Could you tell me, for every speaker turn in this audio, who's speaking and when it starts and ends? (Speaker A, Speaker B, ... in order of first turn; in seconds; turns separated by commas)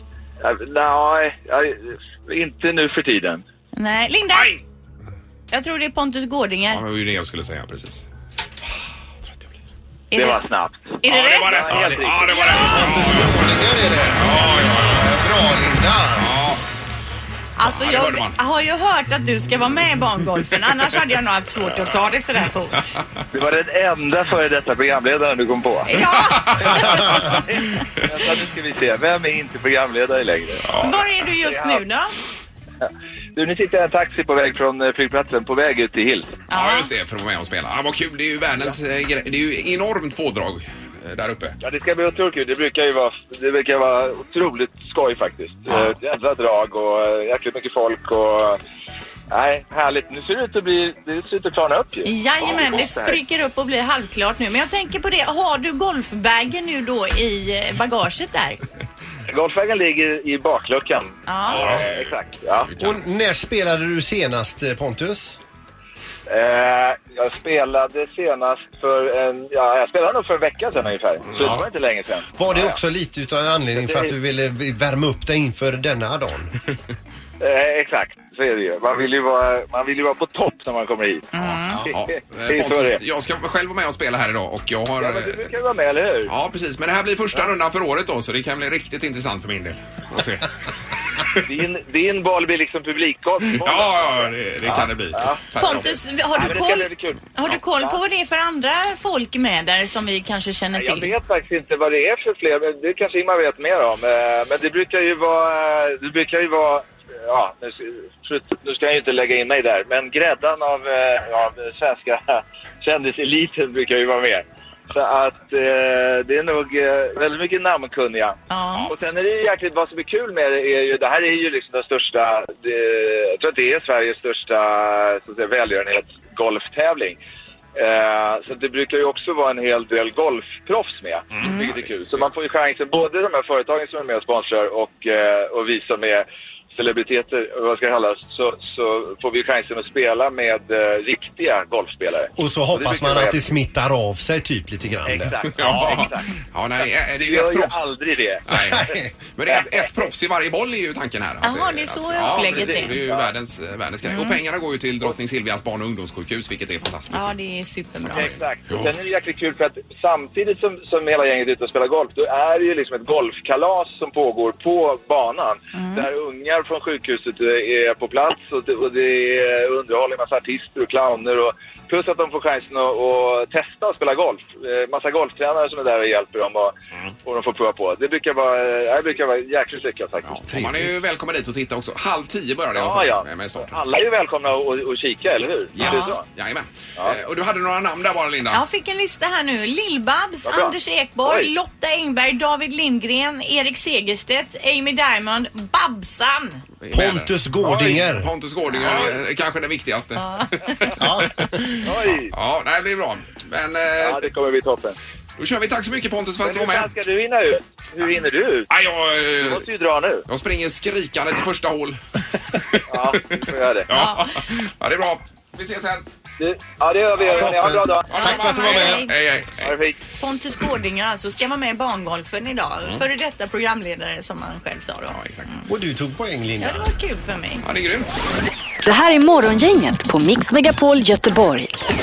Speaker A: 0.4-3.4, Speaker B: 3.7-4.6, Speaker C: 4.3-4.6, Speaker B: 5.5-6.8, Speaker C: 6.7-8.1, Speaker C: 9.2-9.5, Speaker B: 10.1-10.4, Speaker A: 10.1-12.5, Speaker B: 11.0-12.8, Speaker C: 11.1-13.6, Speaker D: 12.5-16.3, Speaker C: 14.1-15.1, Speaker C: 16.1-16.6, Speaker B: 17.6-22.9, Speaker C: 17.6-18.4, Speaker A: 23.3-25.9, Speaker B: 25.9-27.2, Speaker C: 26.3-27.3, Speaker A: 26.7-30.8, Speaker C: 30.7-31.0, Speaker B: 30.8-32.1, Speaker A: 31.4-31.8, Speaker A: 32.8-36.3, Speaker B: 36.5-36.9, Speaker C: 36.5-41.6, Speaker A: 41.6-48.6, Speaker A: 49.3-53.2, Speaker B: 52.0-58.6, Speaker A: 59.3-62.7, Speaker B: 61.3-61.6, Speaker C: 61.5-62.1, Speaker D: 61.6-61.8, Speaker C: 62.6-63.0, Speaker D: 62.8-65.4, Speaker A: 66.3-72.7, Speaker D: 71.4-71.7, Speaker D: 72.3-76.5, Speaker A: 73.7-74.1, Speaker A: 77.4-81.3, Speaker B: 81.3-81.8, Speaker C: 81.4-85.5, Speaker A: 81.9-83.0, Speaker A: 85.0-86.3, Speaker C: 86.3-90.5, Speaker A: 91.5-95.4, Speaker C: 93.6-96.0, Speaker B: 95.6-101.1, Speaker A: 96.3-98.0, Speaker A: 100.7-127.2, Speaker B: 118.5-118.9, Speaker A: 127.7-143.5, Speaker C: 131.4-131.9, Speaker D: 142.4-145.9, Speaker A: 145.1-148.4, Speaker C: 145.5-157.3, Speaker D: 148.5-149.1, Speaker A: 149.4-149.9, Speaker B: 151.4-153.0, Speaker A: 152.2-153.3, Speaker B: 154.1-154.4, Speaker B: 157.1-158.3, Speaker C: 158.1-158.9, Speaker A: 158.1-180.3, Speaker B: 165.7-166.1, Speaker C: 180.2-183.8, Speaker D: 180.5-181.0, Speaker A: 182.7-186.2, Speaker C: 185.7-188.6, Speaker B: 185.8-186.2, Speaker B: 188.5-196.6, Speaker A: 190.4-190.7, Speaker A: 191.2-191.5, Speaker C: 196.8-204.3, Speaker D: 196.9-198.3, Speaker A: 198.8-199.2, Speaker B: 200.2-200.5, Speaker D: 201.0-201.8, Speaker A: 201.8-202.3, Speaker A: 204.0-204.9, Speaker C: 205.4-206.9, Speaker A: 206.4-208.7, Speaker C: 208.7-209.6, Speaker A: 209.3-210.2, Speaker C: 210.3-212.0, Speaker C: 212.5-216.0, Speaker A: 212.9-213.9, Speaker B: 213.9-214.3, Speaker A: 216.4-218.1, Speaker D: 217.2-219.1, Speaker B: 218.1-219.1, Speaker C: 218.1-219.8, Speaker A: 219.6-219.9, Speaker B: 220.2-225.2, Speaker C: 225.1-225.5, Speaker D: 225.7-226.9, Speaker B: 226.6-227.6, Speaker C: 227.6-228.2, Speaker E: 228.8-231.7